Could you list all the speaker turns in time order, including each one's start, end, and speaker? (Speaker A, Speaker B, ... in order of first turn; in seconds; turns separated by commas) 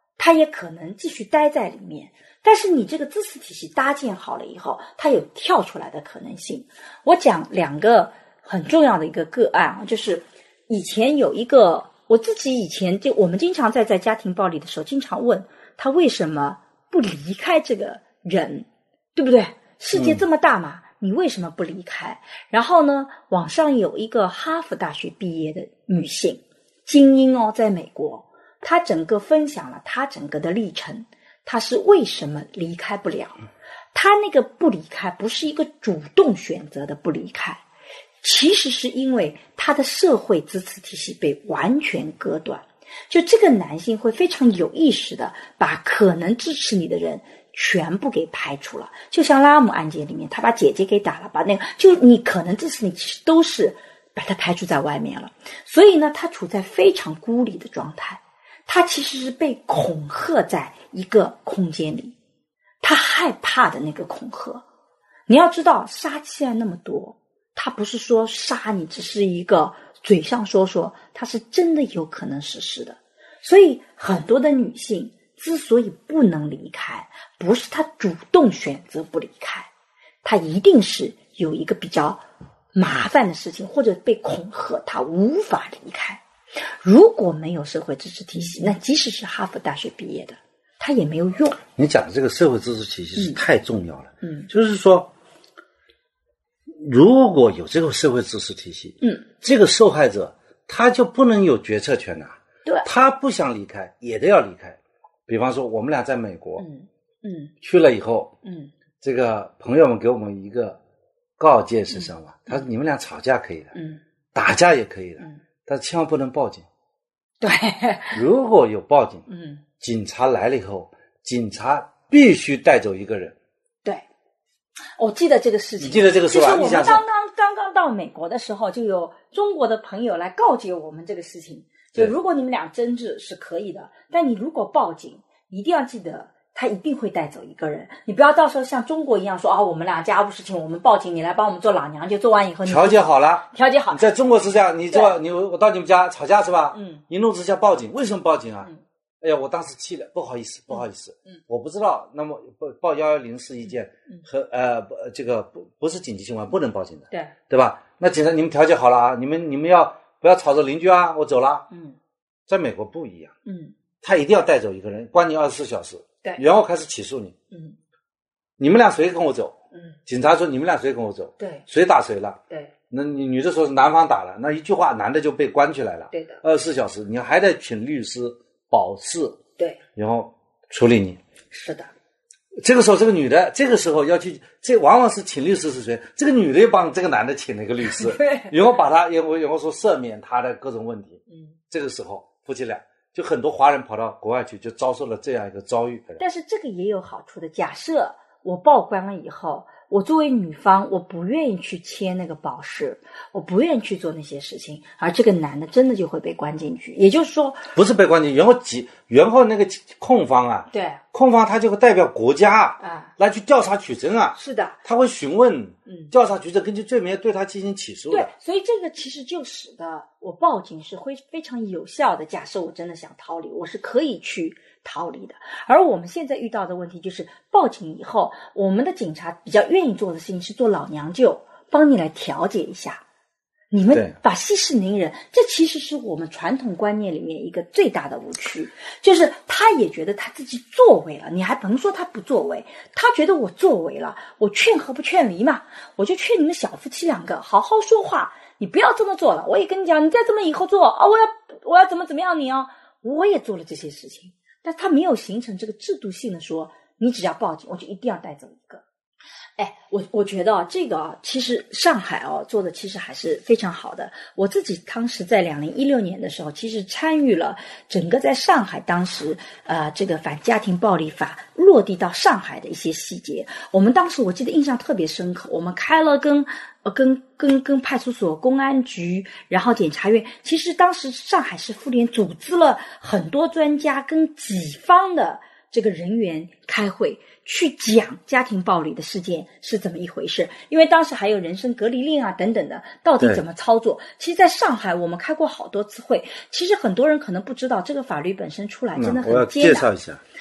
Speaker A: 0.2-33.4, Speaker B: 19.9-20.2, Speaker A: 33.9-37.6, Speaker A: 38.2-62.1, Speaker A: 62.8-64.6, Speaker A: 65.3-79.7, Speaker A: 80.2-82.2, Speaker A: 82.8-86.2, Speaker A: 86.8-91.6, Speaker B: 91.8-95.1, Speaker A: 94.2-94.5, Speaker B: 96.8-106.7, Speaker A: 106.6-107.5, Speaker B: 107.6-108.3, Speaker A: 108.4-108.7, Speaker B: 109.0-110.8, Speaker B: 111.4-113.8, Speaker A: 111.9-112.7, Speaker A: 113.8-114.0, Speaker B: 114.3-116.7, Speaker A: 117.4-118.2, Speaker B: 118.1-119.3, Speaker A: 119.3-119.6, Speaker B: 119.8-123.3, Speaker A: 125.0-144.1, Speaker B: 125.8-127.0, Speaker B: 142.7-148.7, Speaker A: 146.7-147.0, Speaker B: 149.2-161.7, Speaker B: 162.5-163.3, Speaker A: 163.5-163.7, Speaker B: 164.0-167.3, Speaker A: 167.5-167.8, Speaker B: 168.6-169.6, Speaker B: 170.1-179.4, Speaker A: 171.4-171.6, Speaker A: 176.1-176.4, Speaker B: 180.0-181.2, Speaker A: 181.5-181.9, Speaker B: 182.6-196.2, Speaker A: 187.8-188.6, Speaker A: 196.2-207.7, Speaker B: 207.7-218.3, Speaker A: 210.7-211.0, Speaker A: 212.8-213.1, Speaker A: 214.4-214.8, Speaker A: 218.1-233.0, Speaker A: 233.7-258.8, Speaker A: 259.6-299.9, Speaker B: 299.0-300.2